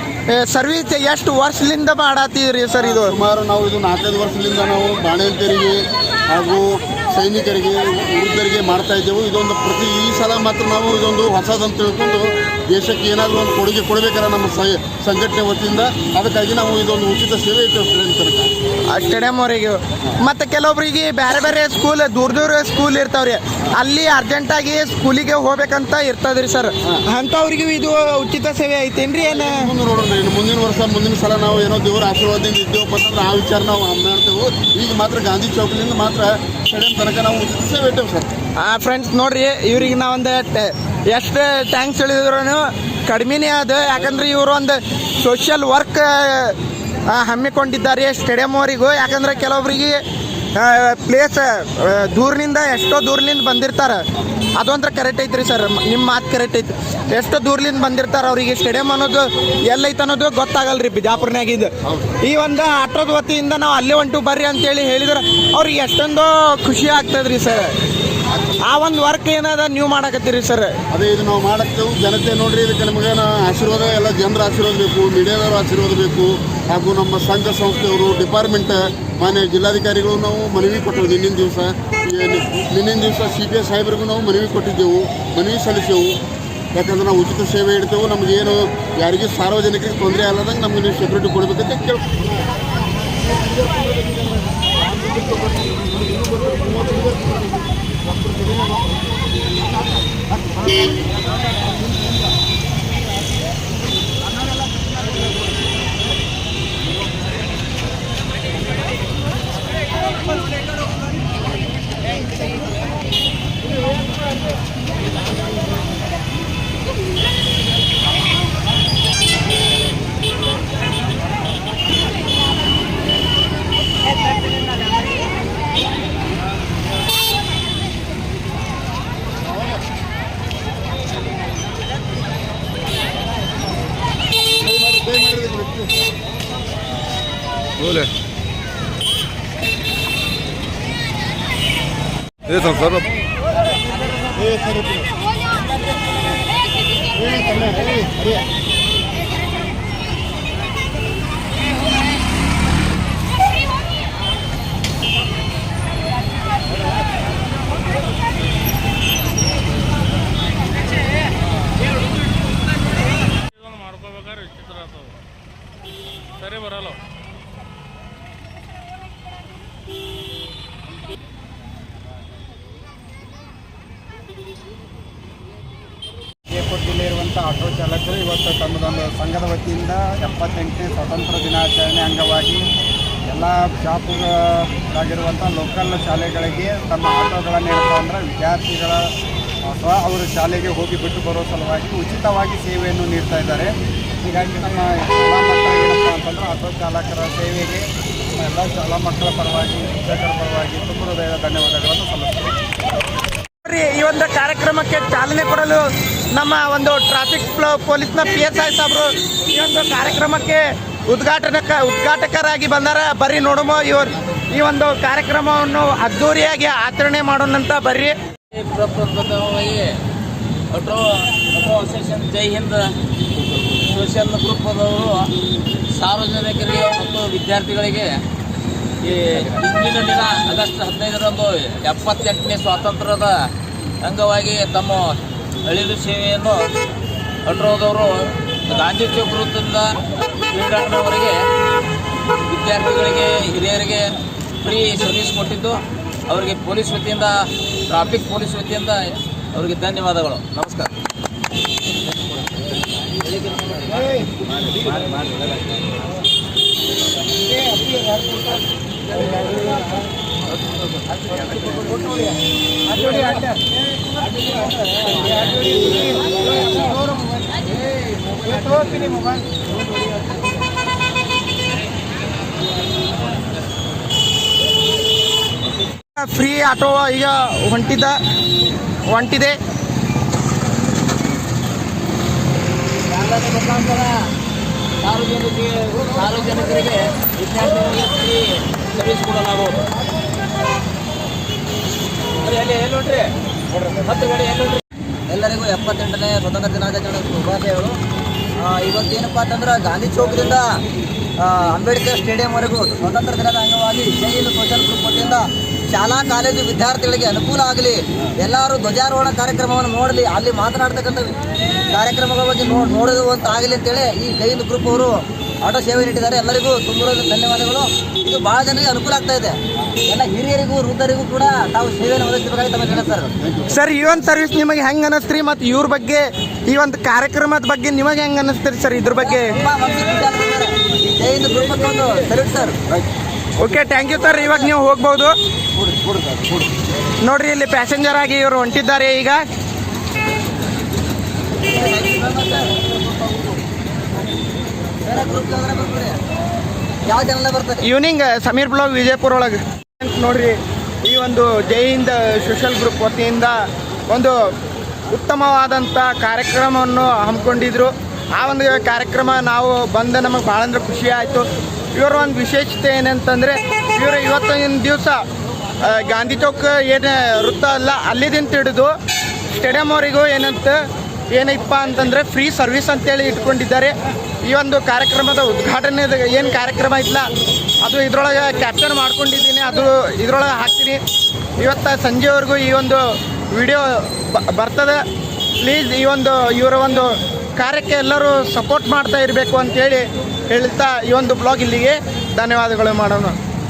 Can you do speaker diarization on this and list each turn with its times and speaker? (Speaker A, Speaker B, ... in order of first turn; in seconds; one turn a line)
Speaker A: 0.3-3.1
Speaker B: 2.8-18.5
Speaker A: 18.9-29.7
Speaker B: 29.4-38.3
Speaker A: 38.6-46.6
Speaker A: 47.1-50.0
Speaker A: 50.5-54.0
Speaker A: 54.6-67.8
Speaker A: 68.6-70.8
Speaker B: 70.9-86.2
Speaker B: 86.7-92.1
Speaker C: 93.5-94.3
Speaker C: 94.8-97.0
Speaker C: 134.7-135.9
Speaker C: 147.3-148.2
Speaker D: 176.5-182.7
Speaker D: 183.3-189.1
Speaker D: 189.6-202.6
Speaker A: 203.6-218.2
Speaker E: 218.5-220.0
Speaker E: 220.7-222.9
Speaker E: 223.7-225.3
Speaker E: 225.9-228.2
Speaker E: 229.0-233.5
Speaker E: 234.0-236.7
Speaker E: 237.5-241.4
Speaker E: 242.5-250.9
Speaker E: 253.2-255.2
Speaker A: 276.1-278.2
Speaker A: 279.1-279.6
Speaker E: 283.1-284.2
Speaker E: 285.0-289.8
Speaker E: 292.4-294.8
Speaker F: 295.3-298.0
Speaker F: 298.6-300.8
Speaker F: 301.4-323.4
Speaker A: 323.7-329.6
Speaker F: 329.2-332.8
Speaker A: 333.6-335.4
Speaker A: 337.2-339.4
Speaker F: 341.6-343.6
Speaker F: 345.0-346.2
Speaker F: 347.1-347.9
Speaker A: 347.8-353.6
Speaker A: 354.1-354.4
Speaker A: 355.1-365.2
Speaker A: 365.8-368.9
Speaker A: 369.6-370.8
Speaker A: 371.3-377.3
Speaker A: 377.8-381.0
Speaker A: 381.6-385.0
Speaker A: 385.6-393.4